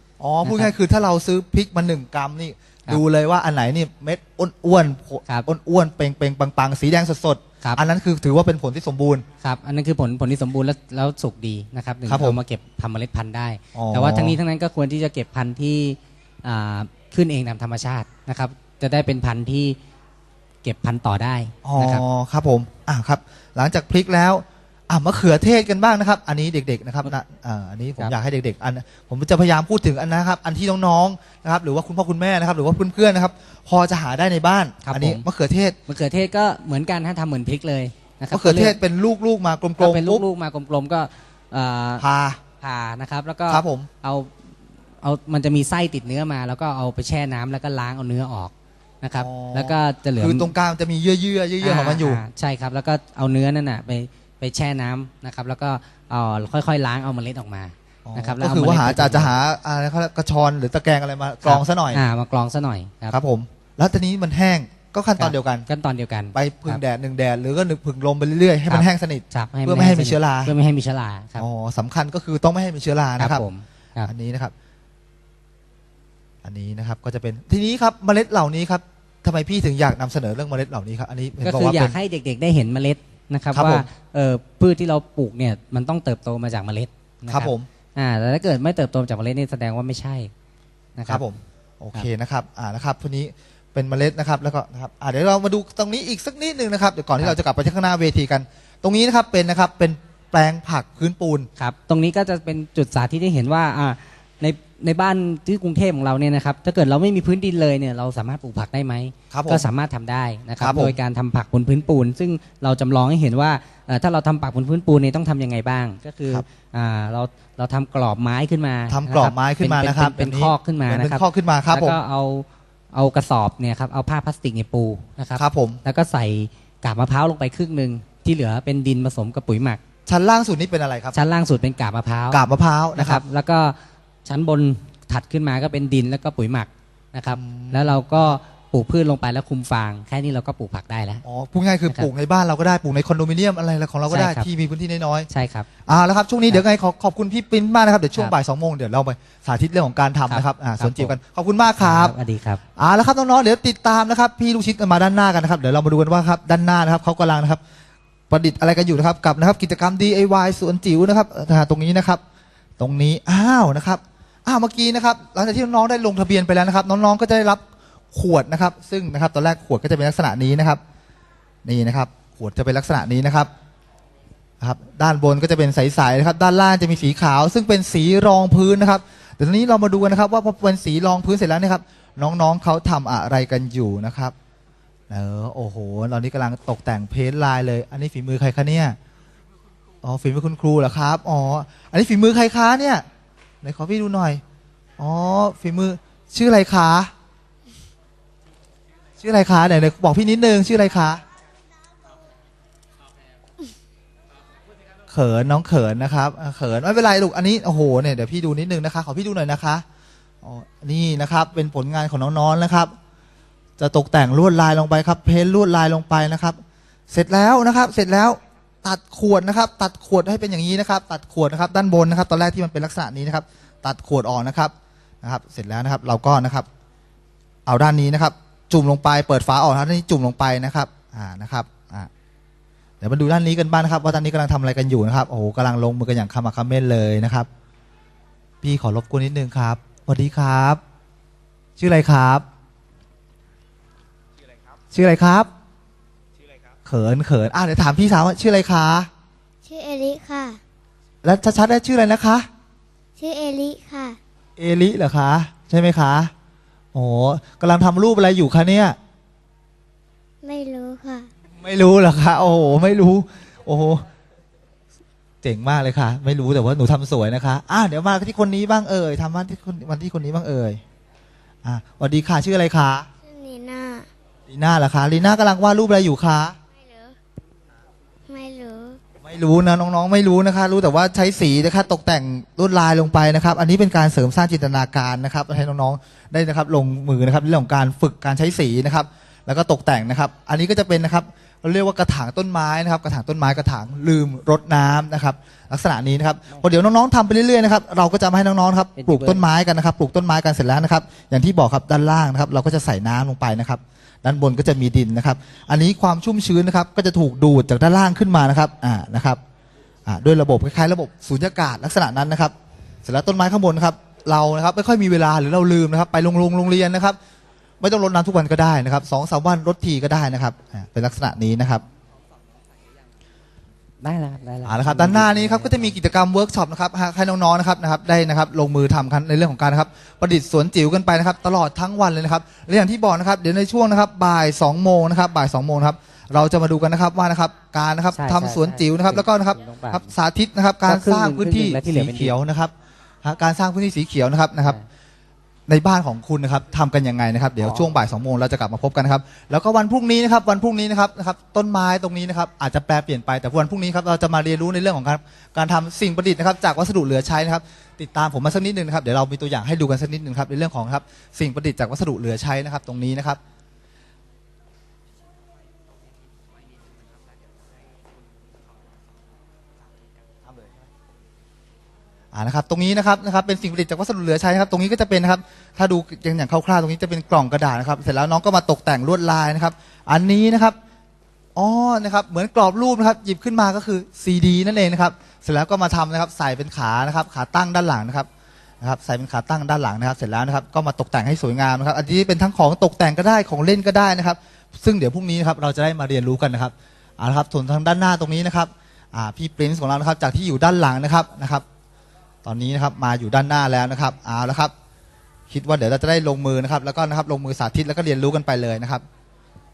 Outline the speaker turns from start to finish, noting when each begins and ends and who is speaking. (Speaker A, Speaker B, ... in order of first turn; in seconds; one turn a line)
Speaker A: 0.2-9.2
Speaker B: 0.4-0.7
Speaker B: 9.4-19.8
Speaker A: 12.1-12.4
Speaker A: 13.8-14.4
Speaker B: 20.6-22.0
Speaker A: 21.6-35.8
Speaker B: 34.8-35.2
Speaker B: 35.9-38.8
Speaker A: 38.3-40.3
Speaker B: 39.8-42.0
Speaker A: 42.0-42.4
Speaker B: 42.6-44.3
Speaker A: 43.5-43.9
Speaker B: 45.0-50.5
Speaker A: 49.2-52.2
Speaker B: 51.6-59.3
Speaker A: 58.1-62.0
Speaker B: 61.5-63.2
Speaker A: 63.1-65.7
Speaker B: 65.2-66.8
Speaker A: 66.3-70.5
Speaker B: 68.7-71.5
Speaker A: 71.4-73.4
Speaker B: 73.2-74.1
Speaker A: 74.0-74.5
Speaker A: 76.4-82.0
Speaker B: 81.4-90.3
Speaker A: 83.5-83.9
Speaker A: 87.3-87.7
Speaker B: 91.0-91.2
Speaker A: 91.1-101.5
Speaker B: 101.6-129.8
Speaker A: 109.3-109.7
Speaker A: 110.6-111.0
Speaker A: 118.9-122.0
Speaker A: 125.4-125.8
Speaker A: 130.1-131.2
Speaker B: 131.1-132.4
Speaker A: 132.3-133.2
Speaker B: 132.9-141.2
Speaker A: 137.3-138.3
Speaker A: 141.2-145.3
Speaker B: 144.1-144.5
Speaker B: 145.3-145.7
Speaker A: 145.9-152.2
Speaker B: 150.3-151.2
Speaker B: 151.8-152.6
Speaker A: 152.8-157.6
Speaker A: 158.3-162.2
Speaker A: 162.8-170.8
Speaker A: 171.7-173.5
Speaker A: 174.6-184.3
Speaker A: 185.1-189.0
Speaker A: 190.0-193.1
Speaker A: 193.6-194.4
Speaker A: 195.0-197.1
Speaker A: 199.2-201.2
Speaker A: 205.1-209.8
Speaker A: 210.4-212.9
Speaker A: 213.8-226.7
Speaker A: 227.7-232.1
Speaker A: 233.0-237.5
Speaker A: 238.6-240.8
Speaker A: 241.8-242.4
Speaker A: 244.9-245.5
Speaker A: 246.8-249.1
Speaker C: 249.7-250.6
Speaker A: 251.2-252.5
Speaker C: 253.2-254.2
Speaker A: 254.6-256.3
Speaker A: 256.9-259.0
Speaker C: 260.4-261.3
Speaker A: 261.6-264.0
Speaker A: 265.4-270.8
Speaker A: 271.6-273.1
Speaker C: 273.2-274.1
Speaker A: 274.5-276.6
Speaker C: 276.7-277.2
Speaker C: 278.3-279.0
Speaker A: 279.2-309.4
Speaker B: 299.0-299.4
Speaker A: 310.1-312.5
Speaker A: 313.1-317.2
Speaker A: 317.8-321.8
Speaker B: 324.0-326.0
Speaker A: 324.6-344.8
Speaker B: 338.1-340.1
Speaker B: 340.9-342.4
Speaker A: 345.7-363.4
Speaker B: 347.6-347.9
Speaker A: 372.3-380.8
Speaker A: 381.6-388.3
Speaker A: 388.8-401.6
Speaker A: 402.4-404.7
Speaker A: 405.5-409.0